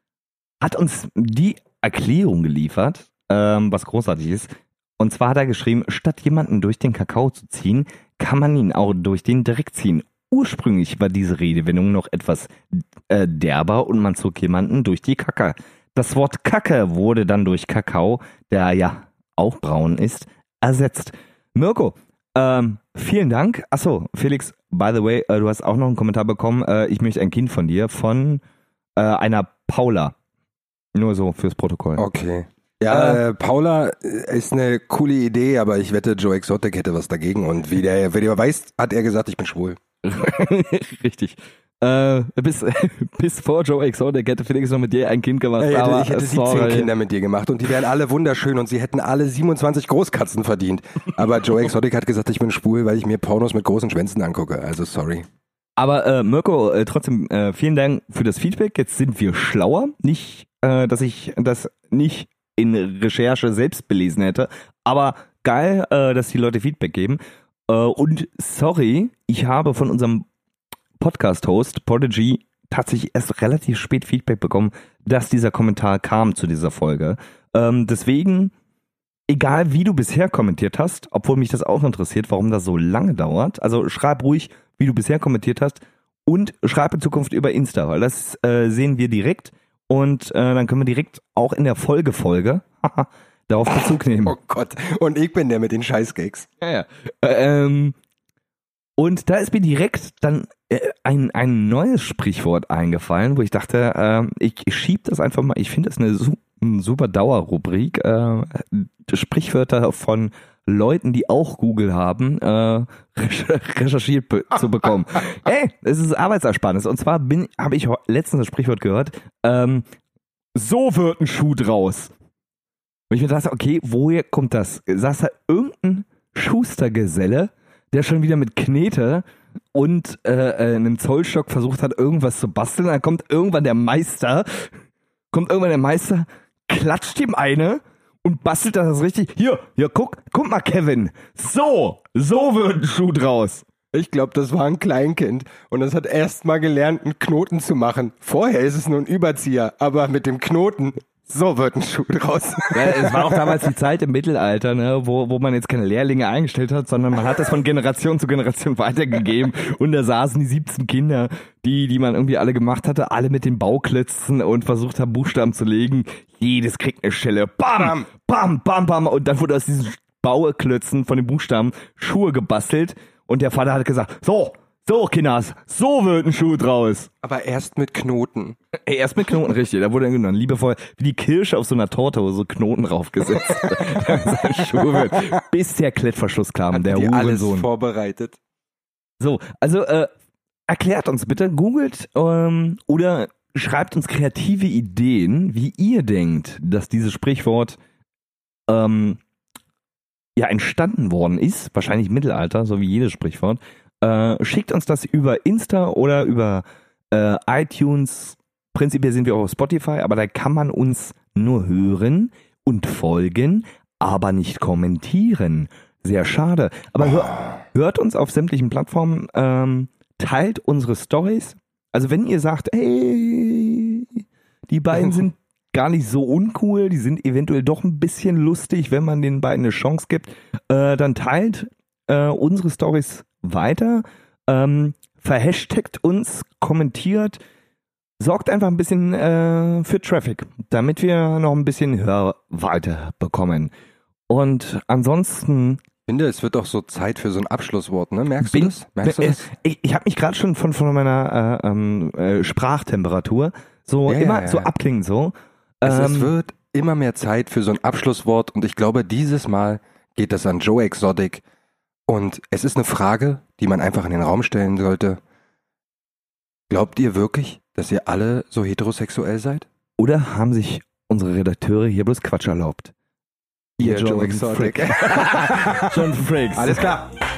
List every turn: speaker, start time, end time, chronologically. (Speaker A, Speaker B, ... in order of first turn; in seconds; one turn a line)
Speaker A: 0.6-28.4
Speaker A: 29.0-30.1
Speaker A: 30.9-32.0
Speaker B: 32.0-39.8
Speaker A: 32.9-33.2
Speaker A: 40.0-46.9
Speaker B: 45.6-55.3
Speaker A: 55.8-70.3
Speaker A: 71.0-78.5
Speaker A: 79.3-94.4
Speaker B: 94.2-96.5
Speaker A: 96.6-98.0
Speaker A: 99.0-119.8
Speaker A: 120.5-122.1
Speaker A: 123.1-134.7
Speaker A: 135.3-143.7
Speaker B: 143.9-153.5
Speaker A: 152.7-177.1
Speaker B: 167.8-168.1
Speaker B: 177.2-178.6
Speaker A: 178.9-187.7
Speaker B: 183.7-184.0
Speaker B: 184.7-185.2
Speaker B: 186.7-188.4
Speaker A: 189.2-190.1
Speaker A: 190.7-197.8
Speaker A: 198.7-199.2
Speaker A: 200.4-237.4
Speaker A: 238.2-243.7
Speaker A: 244.3-245.8
Speaker B: 246.1-249.5
Speaker A: 248.4-256.3
Speaker B: 254.1-254.7
Speaker B: 255.8-261.4
Speaker B: 262.1-265.2
Speaker B: 266.7-269.7
Speaker A: 270.0-272.9
Speaker B: 273.8-277.1
Speaker A: 273.8-277.0